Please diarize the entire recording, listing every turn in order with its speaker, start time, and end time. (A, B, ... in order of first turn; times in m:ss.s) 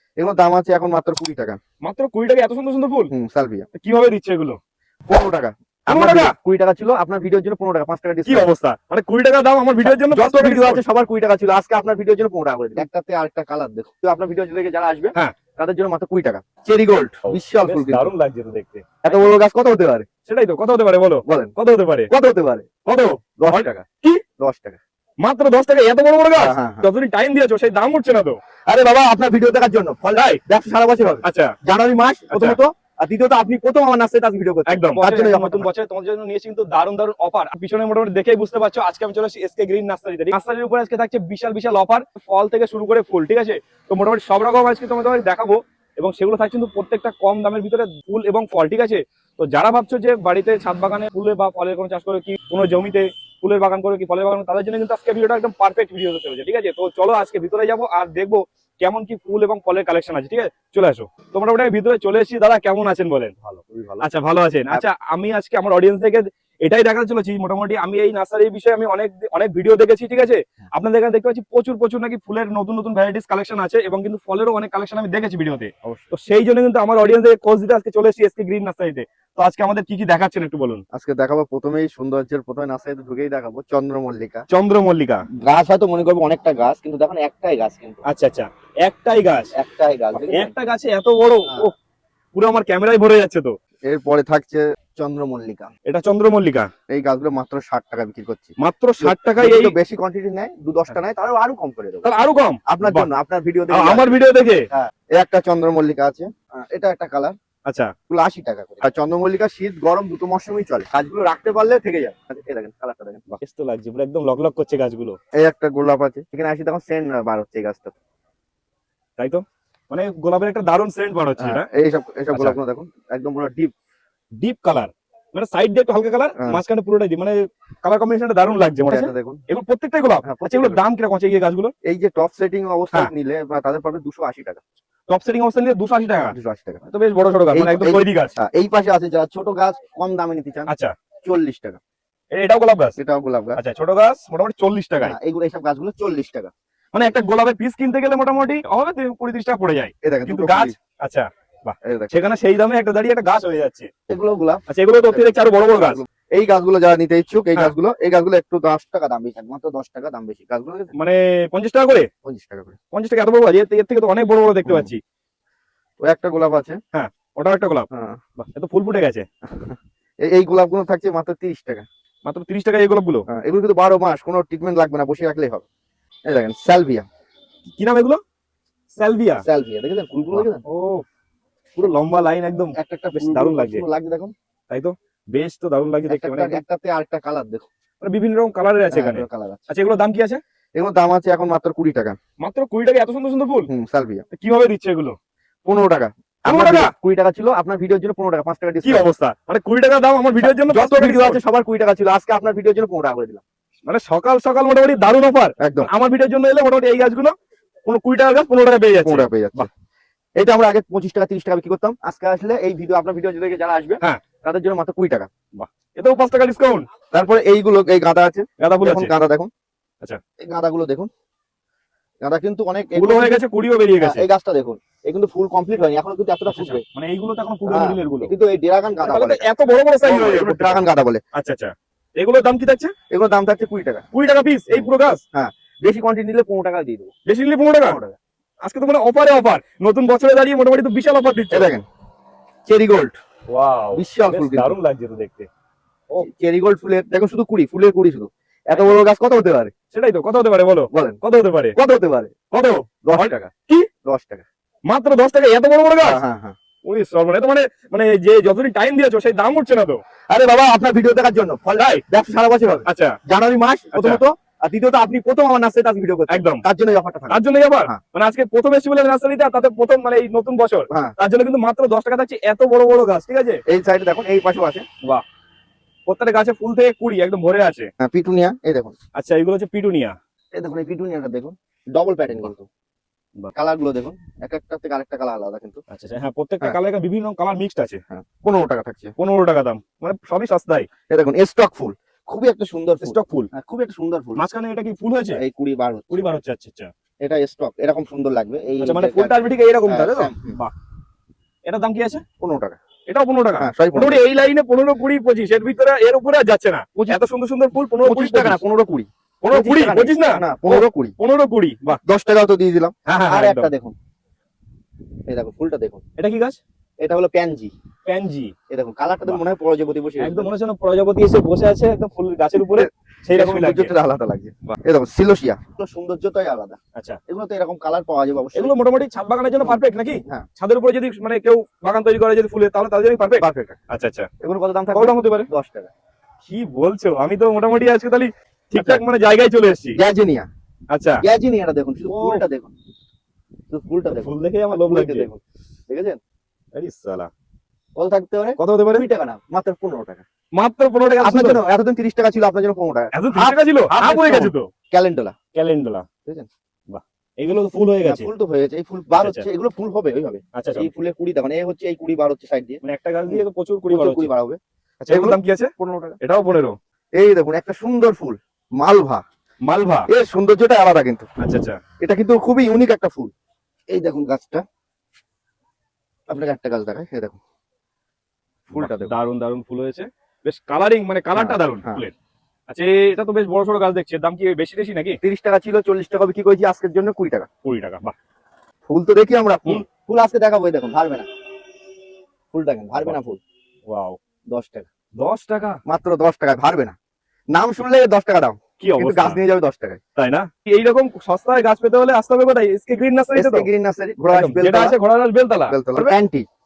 0:00.2-0:01.6 A
0:01.8-0:03.1 B
0:03.1-0:03.7 A
0:03.8-0:04.6 B
0:05.1-0:08.5 A
0:05.9-0:06.3 B
0:08.2-0:10.8 B
0:09.8-0:18.1 A
0:17.2-0:19.2 B
0:19.0-0:20.1 A
0:20.3-0:22.1 B
0:21.3-0:21.5 A
0:22.1-0:22.7 A
0:22.8-0:24.2 B
0:23.4-0:24.8 A
0:25.2-0:28.4 B
0:26.4-0:26.9 A
0:28.7-0:35.7 A
0:30.2-0:30.4 B
0:31.2-0:31.6 B
0:32.3-0:32.6 B
0:34.7-1:03.3 B
1:03.4-1:04.1 A
1:04.0-1:20.8 B
1:20.9-1:24.4 A
1:24.5-1:25.2 B
1:25.4-1:28.0 A
1:28.1-1:29.5 B
1:29.5-1:30.5 A
1:30.2-1:31.8 B
1:32.4-1:33.5 B
1:33.9-1:35.7 A
1:35.9-1:36.7 B
1:36.9-1:42.1 A
1:38.6-1:39.8 B
1:42.0-1:43.1 B
1:42.7-1:44.2 A
1:43.7-1:44.7 B
1:44.7-1:47.4 A
1:47.7-1:47.9 B
1:48.1-1:53.2 A
1:53.3-1:55.2 B
1:55.4-1:58.0 A
1:59.2-2:01.7 B
2:01.4-2:03.7 A
2:02.3-2:02.6 B
2:04.4-2:11.7 B
2:08.9-2:09.4 A
2:10.2-2:10.8 A
2:11.8-2:14.6 A
2:15.1-2:18.4 B
2:16.3-2:16.8 A
2:17.5-2:20.7 A
2:20.7-2:20.9 B
2:21.2-2:21.8 A
2:22.3-2:23.0 B
2:23.0-2:23.6 A
2:23.6-2:25.2 B
2:25.0-2:26.5 A
2:26.9-2:33.9 B
2:30.0-2:30.8 A
2:31.8-2:32.1 A
2:34.1-2:40.9 A
2:34.7-2:36.0 B
2:41.0-2:42.1 B
2:42.2-2:42.8 A
2:42.9-2:45.0 B
2:44.6-2:44.9 A
2:46.0-2:46.8 A
2:46.9-2:49.3 B
2:47.9-2:48.2 A
2:49.4-2:51.9 A
2:52.2-2:53.2 B
2:53.3-2:55.6 A
2:56.3-2:57.1 A
2:57.8-2:58.2 B
2:58.9-2:59.4 B
2:59.4-3:00.6 A
3:00.3-3:01.0 B
3:01.8-3:03.8 B
3:02.7-3:04.3 A
3:04.7-3:06.6 B
3:06.1-3:07.6 A
3:08.0-3:10.4 B
3:08.9-3:09.7 A
3:10.8-3:12.2 A
3:12.4-3:13.7 B
3:13.7-3:14.2 A
3:14.3-3:15.2 B
3:15.7-3:19.1 A
3:16.5-3:16.9 B
3:18.8-3:21.4 B
3:20.4-3:23.4 A
3:23.9-3:27.3 B
3:25.6-3:25.9 A
3:27.8-3:29.7 B
3:29.0-3:29.7 A
3:30.4-3:35.3 A
3:35.6-3:36.9 B
3:37.1-3:39.5 A
3:38.6-3:39.1 B
3:40.4-3:41.1 A
3:42.2-3:43.4 A
3:43.0-3:44.2 B
3:44.0-3:46.8 A
3:46.5-3:48.3 B
3:47.7-3:49.5 A
3:49.0-3:52.9 B
3:50.0-3:51.2 A
3:53.1-3:54.1 A
3:54.1-3:55.2 B
3:54.7-3:57.1 A
3:57.3-3:58.0 B
3:57.8-3:58.2 A
3:58.6-4:01.7 B
4:01.5-4:01.8 A
4:02.7-4:03.2 A
4:03.5-4:05.5 B
4:03.9-4:04.8 A
4:06.2-4:09.7 A
4:08.7-4:09.0 B
4:09.9-4:11.8 B
4:10.9-4:11.2 A
4:11.8-4:12.3 A
4:12.5-4:13.3 B
4:13.0-4:14.4 A
4:14.9-4:16.2 B
4:16.0-4:16.6 A
4:16.8-4:20.0 B
4:20.3-4:28.0 A
4:21.8-4:22.0 B
4:22.9-4:23.2 B
4:23.9-4:24.2 B
4:26.3-4:26.7 B
4:27.3-4:33.6 B
4:30.9-4:31.2 A
4:33.7-4:34.9 A
4:36.1-4:37.9 B
4:38.0-4:38.9 A
4:39.2-4:40.2 B
4:40.5-4:42.7 A
4:43.5-4:45.8 A
4:45.9-4:48.0 B
4:48.1-4:49.1 A
4:49.2-4:50.9 B
4:51.1-4:54.4 A
4:53.0-4:53.5 B
4:54.4-4:55.4 B
4:55.3-4:56.3 A
4:56.1-4:56.9 B
4:57.2-5:00.6 A
4:58.8-5:00.7 B
5:01.7-5:02.2 B
5:02.4-5:02.8 A
5:03.1-5:08.6 B
5:03.6-5:04.2 A
5:08.0-5:11.2 A
5:09.4-5:12.0 B
5:12.0-5:14.0 A
5:13.1-5:13.7 B
5:15.3-5:16.0 A
5:16.2-5:16.6 B
5:17.0-5:17.7 A
5:18.0-5:18.5 B
5:18.7-5:20.5 A
5:20.2-5:24.0 B
5:22.6-5:28.8 A
5:28.6-5:34.3 B
5:29.6-5:30.5 A
5:33.4-5:33.8 A
5:34.4-5:35.9 A
5:34.9-5:35.5 B
5:36.5-5:40.0 B
5:38.7-5:39.0 A
5:40.0-5:40.5 A
5:40.9-5:41.2 B
5:41.2-5:42.7 A
5:42.1-5:42.4 B
5:43.7-5:46.2 A
5:44.2-5:45.3 B
5:46.8-5:47.3 B
5:48.0-5:50.2 A
5:48.6-5:49.0 B
5:50.6-5:51.6 B
5:51.2-5:55.4 A
5:53.1-5:54.7 B
5:55.5-5:56.1 B
5:56.9-5:58.3 B
5:58.0-6:06.2 A
5:59.2-5:59.5 B
6:00.5-6:00.9 B
6:02.8-6:04.3 B
6:05.0-6:06.8 B
6:07.2-6:09.2 A
6:09.6-6:10.1 B
6:10.1-6:11.3 A
6:11.4-6:11.8 B
6:12.0-6:13.3 A
6:13.9-6:14.6 A
6:16.3-6:17.4 A
6:18.7-6:19.2 A
6:18.8-6:22.1 B
6:21.4-6:22.0 A
6:22.7-6:25.2 B
6:25.2-6:27.5 A
6:27.6-6:28.2 B
6:28.9-6:31.3 A
6:32.5-6:33.4 A
6:33.9-6:34.2 B
6:34.5-6:34.9 A
6:35.2-6:35.8 B
6:35.9-6:37.0 A
6:37.5-6:40.0 A
6:38.8-6:39.4 B
6:40.2-6:43.7 B
6:43.4-6:45.0 A
6:44.3-6:46.1 B
6:45.7-6:46.5 A